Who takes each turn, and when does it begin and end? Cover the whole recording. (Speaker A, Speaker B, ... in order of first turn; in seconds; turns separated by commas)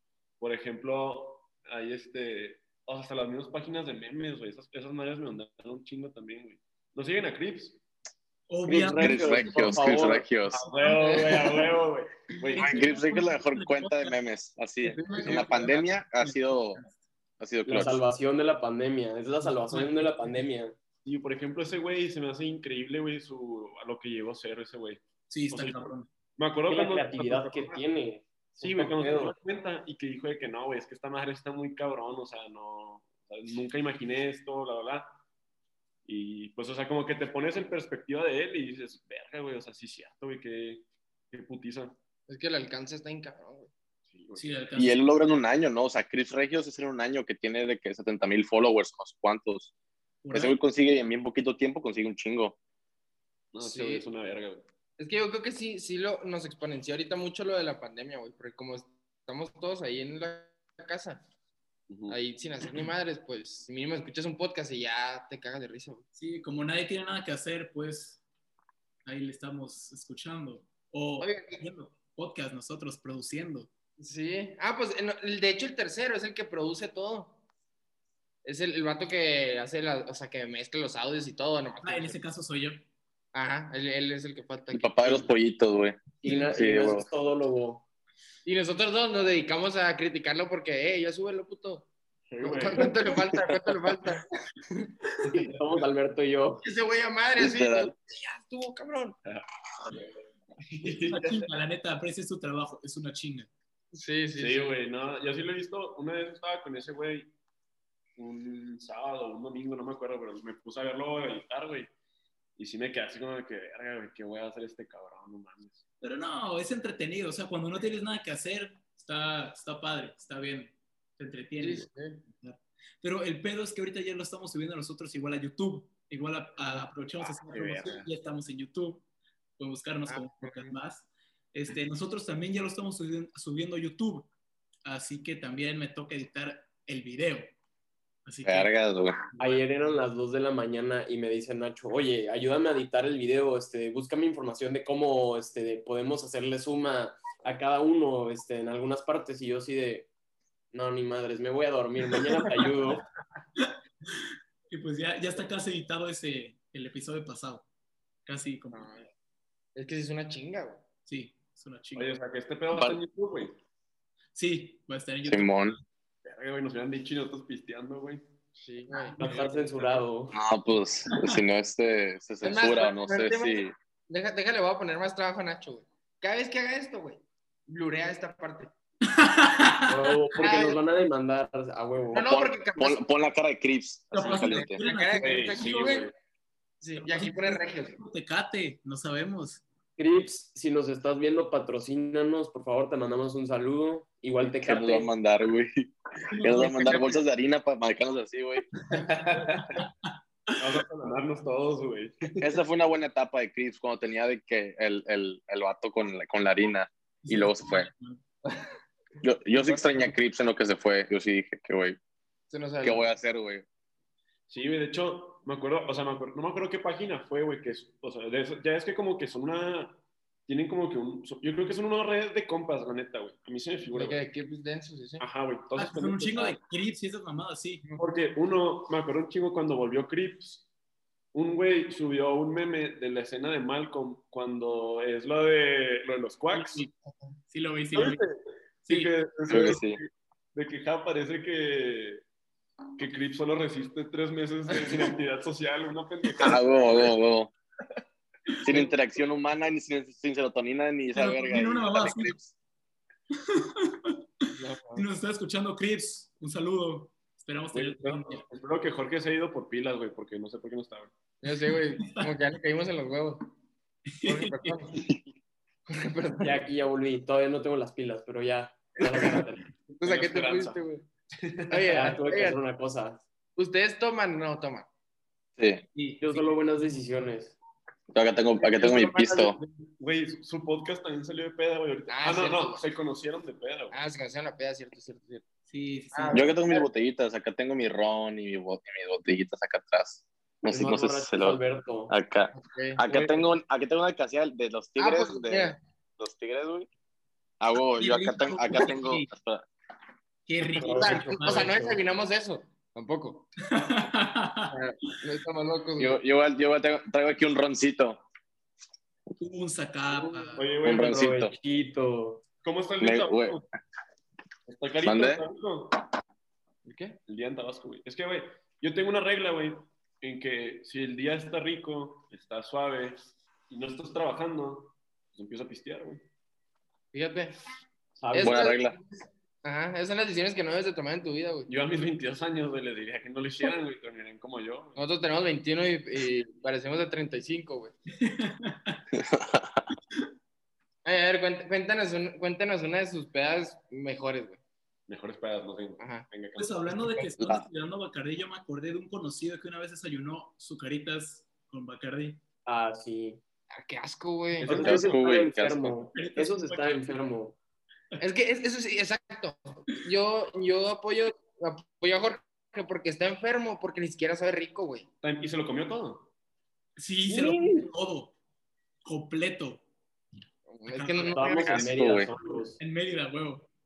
Speaker A: 0.4-7.8, Speaker B: 8.5-10.2, Speaker C: 8.7-10.3, Speaker D: 8.9-10.6, Speaker A: 10.5-12.9, Speaker B: 10.7-11.4, Speaker E: 10.8-11.6, Speaker B: 12.4-14.2, Speaker D: 12.6-16.8, Speaker E: 14.8-15.5, Speaker B: 15.0-17.0, Speaker D: 17.4-18.0, Speaker C: 17.6-20.8, Speaker B: 19.4-20.4, Speaker A: 21.0-27.8, Speaker B: 25.3-26.1, Speaker C: 26.7-29.4, Speaker A: 28.6-35.1, Speaker A: 36.0-42.0, Speaker E: 42.3-43.7, Speaker A: 44.1-44.4, Speaker B: 44.3-45.1, Speaker D: 44.8-49.7, Speaker B: 50.2-50.6, Speaker D: 50.3-52.5, Speaker A: 53.5-54.6, Speaker E: 53.6-54.0, Speaker E: 55.0-61.2, Speaker A: 61.9-62.2, Speaker E: 62.1-66.0, Speaker B: 66.1-68.2, Speaker B: 69.0-73.7, Speaker E: 71.2-71.6, Speaker E: 74.0-77.3, Speaker E: 78.4-82.2, Speaker B: 81.8-82.8, Speaker E: 83.3-85.3, Speaker D: 84.7-87.1, Speaker C: 86.2-87.8, Speaker B: 86.2-86.5, Speaker E: 88.4-91.9, Speaker A: 92.3-93.1, Speaker E: 92.4-94.9, Speaker A: 95.2-95.6, Speaker C: 95.5-96.6, Speaker E: 96.6-99.2, Speaker D: 97.4-97.9, Speaker A: 99.2-100.1, Speaker A: 100.7-101.5, Speaker B: 100.8-103.5, Speaker E: 103.9-104.8, Speaker A: 104.3-107.3, Speaker A: 108.2-111.9, Speaker A: 112.6-115.8, Speaker B: 116.0-129.0, Speaker E: 121.6-122.2, Speaker A: 127.5-128.0, Speaker E: 127.8-128.0, Speaker B: 129.6-134.3, Speaker E: 130.1-130.8, Speaker B: 134.8-137.5, Speaker B: 138.2-138.7, Speaker D: 138.4-139.2, Speaker B: 139.4-139.6, Speaker C: 139.4-150.1, Speaker C: 150.7-153.0, Speaker B: 153.6-157.7, Speaker B: 158.2-158.9, Speaker E: 158.7-159.1, Speaker E: 159.7-160.8, Speaker B: 161.1-162.1, Speaker A: 161.9-163.6, Speaker D: 162.7-163.0, Speaker B: 164.3-165.7, Speaker D: 165.2-165.8, Speaker A: 166.2-168.2, Speaker E: 168.6-169.2, Speaker B: 168.9-169.5, Speaker C: 169.2-170.3, Speaker A: 169.2-170.0, Speaker D: 170.3-173.7, Speaker E: 172.4-178.7, Speaker B: 179.1-180.1, Speaker C: 179.9-182.2, Speaker E: 180.4-180.8, Speaker E: 182.1-183.0, Speaker D: 182.1-184.8, Speaker B: 184.1-186.0, Speaker E: 184.4-186.1, Speaker A: 185.2-186.1, Speaker E: 186.8-188.0, Speaker B: 187.0-189.6, Speaker C: 190.0-195.1, Speaker D: 194.5-198.7, Speaker B: 196.3-197.2, Speaker A: 198.9-199.8, Speaker B: 199.8-200.1, Speaker A: 200.6-202.6, Speaker D: 202.4-207.9, Speaker B: 207.2-208.2, Speaker D: 209.2-212.0, Speaker E: 209.5-210.1, Speaker E: 212.5-213.1, Speaker D: 212.8-213.6, Speaker A: 214.5-224.2, Speaker E: 223.9-225.2, Speaker A: 225.2-226.6, Speaker B: 225.8-227.8, Speaker A: 228.0-230.7, Speaker A: 231.3-236.8, Speaker B: 236.5-236.9, Speaker B: 237.5-238.2, Speaker A: 237.9-238.3, Speaker B: 238.8-239.1, Speaker A: 238.8-242.2, Speaker D: 239.5-240.0, Speaker A: 243.0-247.1, Speaker E: 244.7-245.1, Speaker D: 246.4-247.5, Speaker D: 248.6-252.4, Speaker B: 251.1-252.4, Speaker B: 253.3-254.2, Speaker E: 254.5-255.1, Speaker B: 254.9-258.4, Speaker A: 257.7-261.1, Speaker E: 261.4-263.4, Speaker B: 262.0-262.2, Speaker B: 264.1-264.8, Speaker E: 264.2-265.0, Speaker D: 265.0-265.3, Speaker E: 265.9-266.6, Speaker C: 266.4-269.6, Speaker E: 269.1-271.1, Speaker A: 270.0-270.8, Speaker A: 271.4-272.0, Speaker E: 271.7-272.6, Speaker C: 271.9-273.2, Speaker E: 273.6-274.9, Speaker D: 275.6-275.8, Speaker B: 275.9-276.5, Speaker C: 276.2-277.5, Speaker D: 278.1-279.6, Speaker E: 278.6-279.6, Speaker A: 280.0-284.0, Speaker E: 282.1-282.9, Speaker E: 283.9-285.4, Speaker B: 285.7-286.5, Speaker E: 286.1-286.9, Speaker D: 286.3-296.9, Speaker C: 290.7-292.1, Speaker E: 292.5-293.3, Speaker E: 295.0-295.8, Speaker D: 297.6-299.6, Speaker B: 298.0-299.3, Speaker B: 300.4-302.0, Speaker E: 300.7-303.5, Speaker A: 300.8-301.6, Speaker B: 303.7-304.7, Speaker E: 304.7-306.2, Speaker D: 306.0-308.2, Speaker B: 309.4-310.6, Speaker E: 310.2-310.6, Speaker A: 310.6-311.5, Speaker D: 310.8-311.5, Speaker C: 310.9-312.4, Speaker A: 312.6-313.6, Speaker D: 313.0-313.6, Speaker A: 314.7-316.0, Speaker D: 315.0-315.4, Speaker E: 316.8-317.2, Speaker A: 317.3-326.2, Speaker E: 327.1-327.6, Speaker A: 328.2-328.6, Speaker E: 328.3-331.7, Speaker D: 328.4-328.9, Speaker A: 331.7-335.0, Speaker E: 334.9-337.9, Speaker B: 338.2-339.0, Speaker D: 339.2-339.9, Speaker E: 341.0-344.6, Speaker A: 345.1-347.1, Speaker E: 346.0-346.2, Speaker B: 346.6-352.4, Speaker D: 347.4-347.6, Speaker C: 352.6-353.4, Speaker E: 353.7-355.1, Speaker C: 354.6-357.6, Speaker D: 354.7-355.9, Speaker B: 356.1-357.2, Speaker E: 358.2-365.1, Speaker A: 365.2-366.3, Speaker B: 367.0-368.3, Speaker C: 367.3-367.6, Speaker B: 369.0-369.8, Speaker E: 370.7-371.9, Speaker B: 370.9-373.7, Speaker C: 371.2-372.8, Speaker D: 371.8-372.3